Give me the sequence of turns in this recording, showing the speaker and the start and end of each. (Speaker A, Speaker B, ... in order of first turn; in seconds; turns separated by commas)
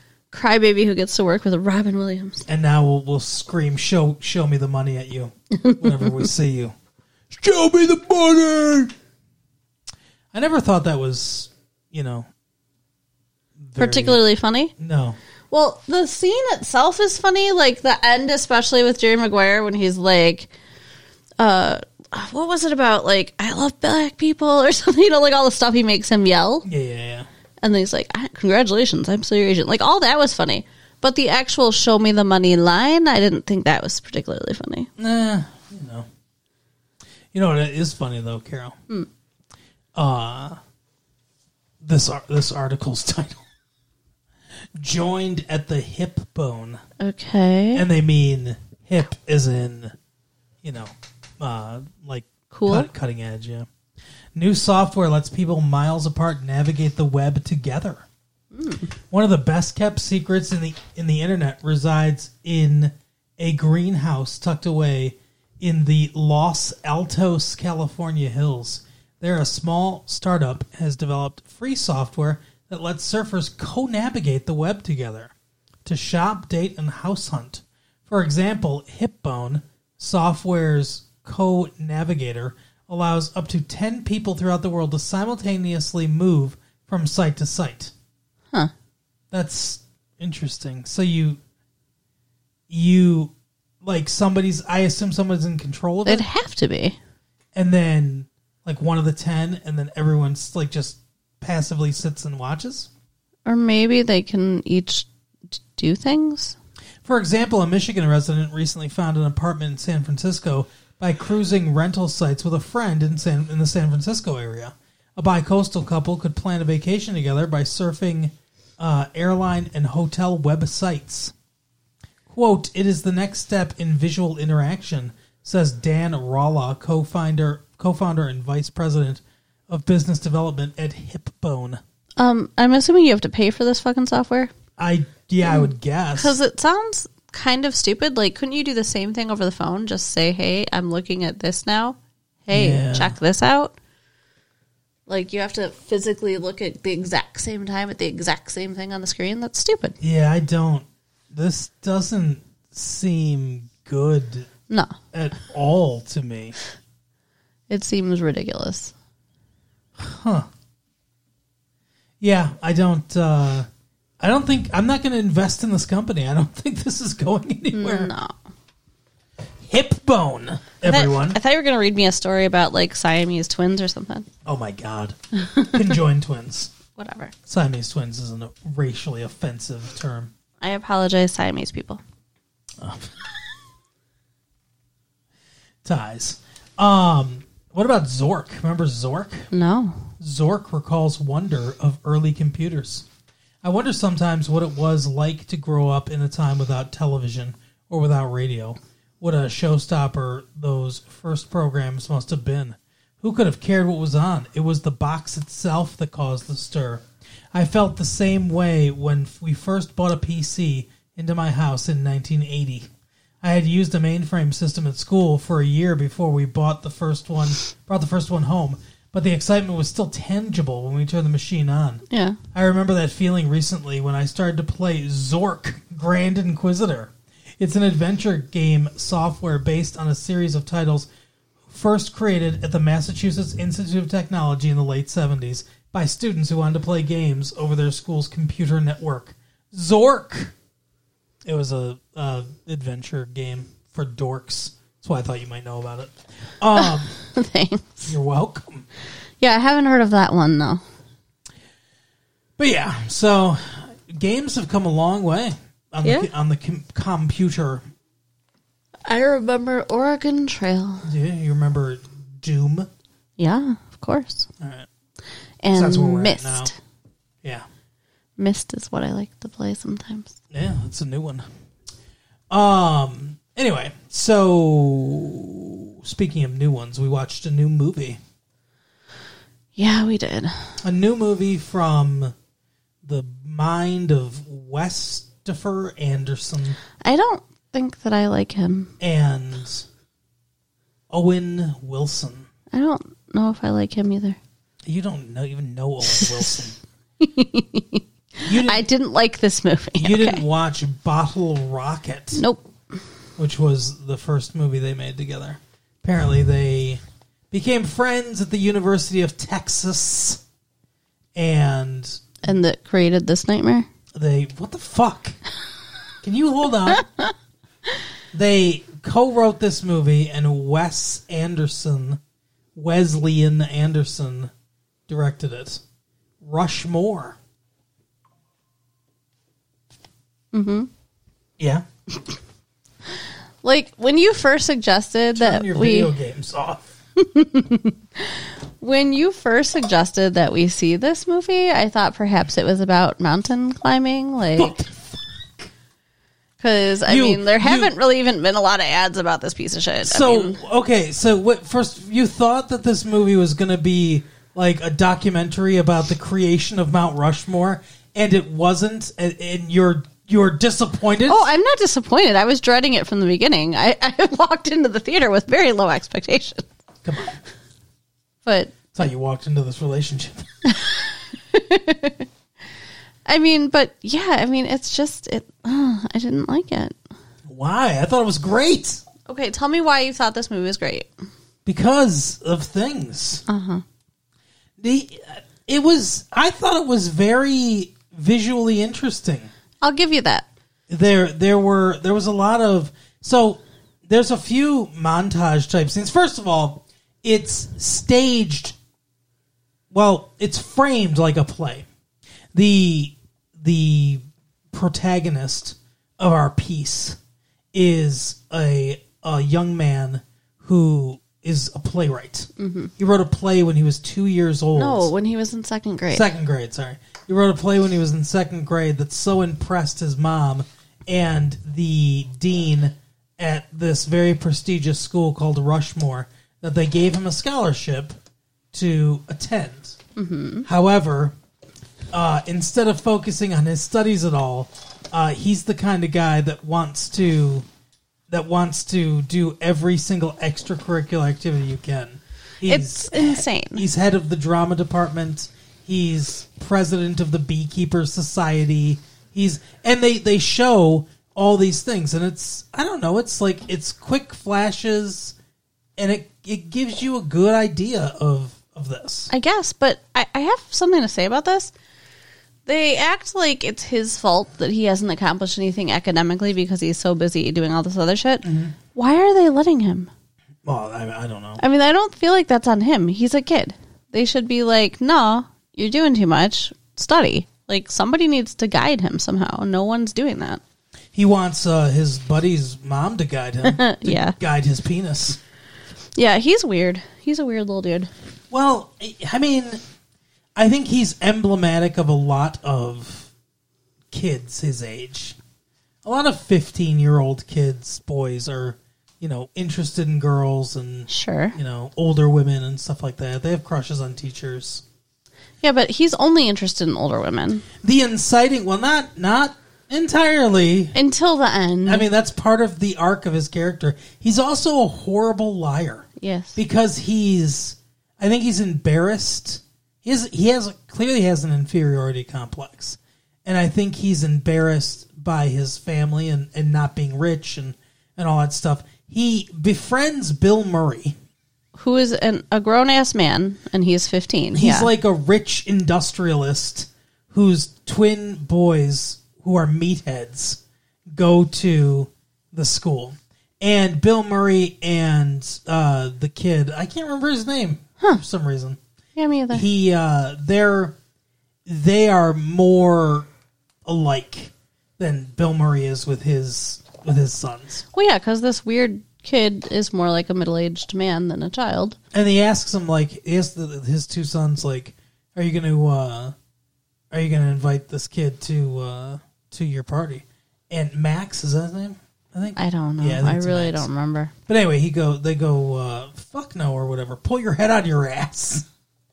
Speaker A: 0.3-2.4, Speaker B: 2.5-6.7, Speaker A: 5.5-6.3, Speaker B: 7.3-8.9, Speaker B: 10.3-12.3, Speaker B: 13.6-14.2, Speaker A: 13.8-14.7, Speaker B: 14.8-15.2, Speaker A: 15.5-20.5, Speaker A: 21.4-26.6, Speaker B: 26.6-27.2, Speaker A: 27.6-34.9, Speaker B: 35.0-36.0, Speaker B: 37.3-38.8, Speaker B: 40.0-40.6, Speaker B: 41.8-43.4, Speaker B: 44.8-46.8, Speaker A: 47.0-47.8, Speaker B: 47.7-49.9, Speaker B: 50.6-53.7, Speaker A: 52.5-52.9, Speaker B: 54.4-58.0, Speaker A: 58.5-58.9, Speaker B: 59.1-75.3, Speaker B: 75.8-87.9, Speaker B: 89.3-91.4, Speaker B: 92.7-96.2, Speaker A: 96.0-97.0, Speaker B: 97.5-102.9, Speaker A: 103.5-106.5, Speaker B: 107.0-121.3, Speaker B: 122.3-131.8, Speaker A: 132.2-134.5, Speaker B: 134.8-136.4, Speaker A: 135.4-143.8, Speaker B: 142.5-143.1, Speaker A: 145.1-149.9, Speaker B: 150.0-154.5, Speaker A: 154.7-155.0, Speaker B: 155.1-156.6, Speaker A: 157.7-158.9, Speaker B: 160.0-160.5, Speaker B: 162.2-163.7, Speaker B: 164.2-168.1, Speaker A: 167.7-168.3, Speaker B: 169.7-171.4, Speaker A: 170.8-174.3, Speaker B: 174.4-176.7, Speaker A: 175.5-175.8, Speaker A: 176.9-177.3, Speaker B: 177.4-180.3, Speaker A: 180.6-182.0, Speaker B: 182.8-183.1, Speaker B: 185.8-189.5, Speaker A: 189.5-190.1, Speaker B: 190.2-193.1, Speaker B: 193.6-212.9, Speaker B: 213.4-231.1, Speaker A: 222.1-222.4, Speaker B: 231.7-240.5, Speaker B: 241.4-247.1, Speaker A: 246.8-248.1, Speaker B: 248.1-248.9, Speaker A: 249.4-250.8, Speaker B: 252.6-257.8, Speaker A: 256.0-256.3, Speaker A: 259.1-261.1, Speaker B: 261.0-262.9, Speaker A: 263.4-264.5, Speaker B: 264.6-264.9, Speaker A: 265.6-266.8, Speaker B: 265.7-266.7, Speaker A: 268.4-270.4, Speaker B: 270.5-271.4, Speaker B: 272.5-278.2, Speaker A: 279.8-280.8, Speaker B: 280.8-282.3, Speaker B: 283.0-286.8, Speaker A: 287.0-288.9, Speaker B: 289.0-289.9, Speaker B: 291.1-292.5, Speaker A: 292.7-294.4, Speaker B: 294.9-296.8, Speaker A: 296.1-296.5, Speaker A: 297.2-300.4, Speaker B: 298.4-298.9, Speaker B: 300.0-302.4, Speaker A: 302.3-302.7, Speaker B: 303.4-310.4, Speaker B: 311.4-312.4, Speaker A: 312.4-313.9, Speaker B: 314.1-315.4, Speaker B: 316.2-317.1, Speaker A: 317.0-317.3, Speaker B: 318.3-322.2, Speaker B: 322.8-324.5, Speaker B: 325.1-325.8, Speaker B: 326.4-327.4, Speaker A: 330.5-330.9, Speaker B: 331.6-331.9, Speaker A: 333.1-336.1, Speaker B: 335.4-336.8, Speaker A: 337.1-344.8, Speaker B: 344.6-345.1, Speaker A: 346.6-350.6, Speaker B: 347.1-347.9, Speaker B: 350.0-361.5, Speaker A: 361.3-366.7, Speaker B: 367.0-367.4, Speaker A: 368.4-368.9, Speaker B: 368.9-370.5, Speaker A: 370.6-372.3, Speaker A: 373.2-377.0, Speaker B: 377.5-379.0, Speaker A: 379.2-381.1, Speaker B: 381.6-383.4, Speaker A: 383.5-383.8, Speaker B: 384.8-389.5, Speaker A: 389.8-390.5, Speaker B: 390.9-398.8, Speaker B: 399.9-401.9, Speaker B: 402.5-407.2, Speaker B: 407.7-415.1, Speaker A: 412.6-412.9, Speaker A: 414.8-416.3, Speaker B: 416.1-428.1, Speaker B: 428.7-430.0, Speaker A: 430.1-430.7, Speaker B: 430.6-431.3, Speaker B: 432.1-437.6, Speaker B: 438.3-455.4, Speaker A: 442.6-443.9, Speaker B: 456.0-459.3, Speaker A: 459.3-461.7, Speaker A: 462.6-470.1, Speaker B: 468.4-468.8, Speaker B: 470.6-471.6, Speaker A: 471.6-480.6, Speaker B: 481.1-485.4, Speaker A: 483.6-484.4, Speaker A: 486.1-488.1, Speaker B: 488.5-489.8, Speaker B: 490.6-493.3, Speaker B: 494.1-495.4, Speaker B: 496.0-504.8, Speaker A: 501.1-501.6, Speaker A: 505.6-507.6, Speaker B: 507.8-510.9, Speaker A: 510.9-512.1, Speaker B: 511.9-531.1, Speaker A: 516.2-516.6, Speaker A: 531.8-534.9, Speaker B: 534.5-540.6, Speaker B: 541.1-548.8, Speaker A: 549.1-549.6, Speaker B: 549.5-551.0, Speaker B: 551.6-553.3, Speaker B: 553.9-557.8, Speaker A: 557.9-562.0, Speaker B: 562.1-566.4, Speaker B: 567.1-573.9, Speaker A: 572.5-574.3, Speaker B: 574.5-578.6